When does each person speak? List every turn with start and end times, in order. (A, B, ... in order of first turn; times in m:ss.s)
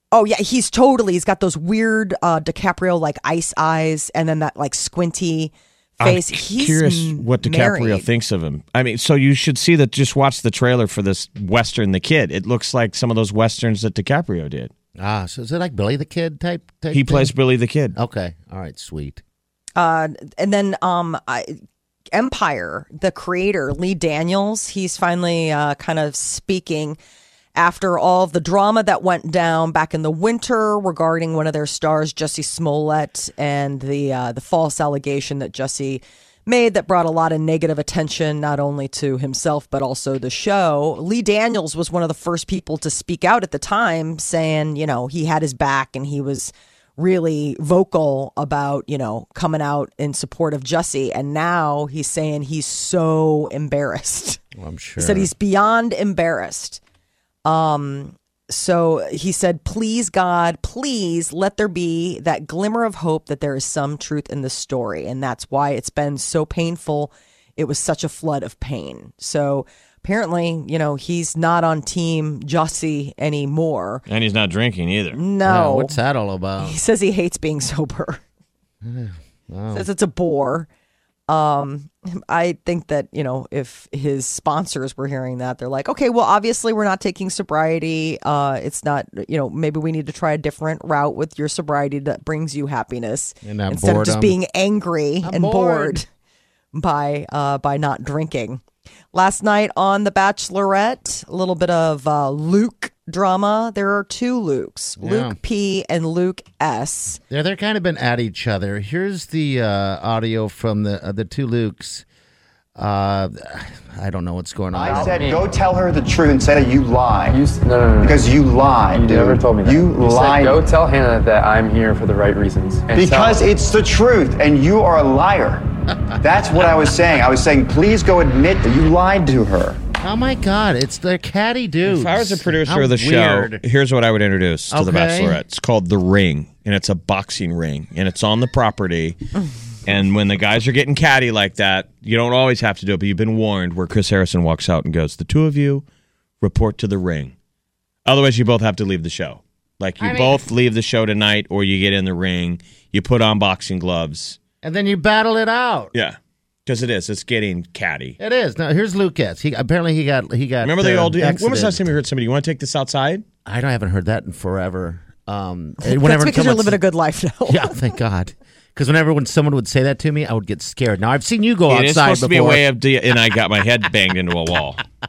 0:00.1-0:08.0 A
0:06.0-0:14.7 B
0:15.0-0:17.3 C
0:16.9-0:17.9 B
0:17.9-0:19.2 C
0:19.8-0:21.6 A
0:22.1-0:27.0 A
0:27.6-0:54.4 A
0:54.5-0:55.3 C
0:55.0-0:56.8 A
0:57.4-1:14.0 A
1:14.1-1:15.2 B
1:15.1-1:16.0 A
1:15.4-1:16.8 C
1:16.6-1:18.2 A
1:18.8-1:19.9 C
1:19.7-1:20.7 A
1:21.3-1:36.0 A
1:33.4-1:34.4 C
1:35.2-1:36.0 C
1:36.7-1:38.6 A
1:39.1-1:47.2 A
1:45.0-1:45.4 C
1:47.3-1:52.0 C
1:52.7-1:55.3 C
1:54.7-1:57.4 D
1:54.9-1:55.5 E
1:57.3-1:58.3 E
1:58.0-2:00.6 D
1:58.9-2:03.5 E
2:02.9-2:09.8 D
2:05.9-2:06.2 C
2:10.0-2:13.6 C
2:11.8-2:19.2 B
2:14.7-2:15.4 C
2:19.8-2:25.8 B
2:26.4-2:27.3 B
2:28.0-2:34.4 B
2:30.0-2:30.4 C
2:34.6-2:35.9 C
2:35.9-2:38.2 B
2:38.2-2:41.8 C
2:40.6-2:43.2 B
2:43.4-2:46.8 C
2:45.8-2:47.8 A
2:47.5-2:52.6 C
2:51.7-2:54.8 B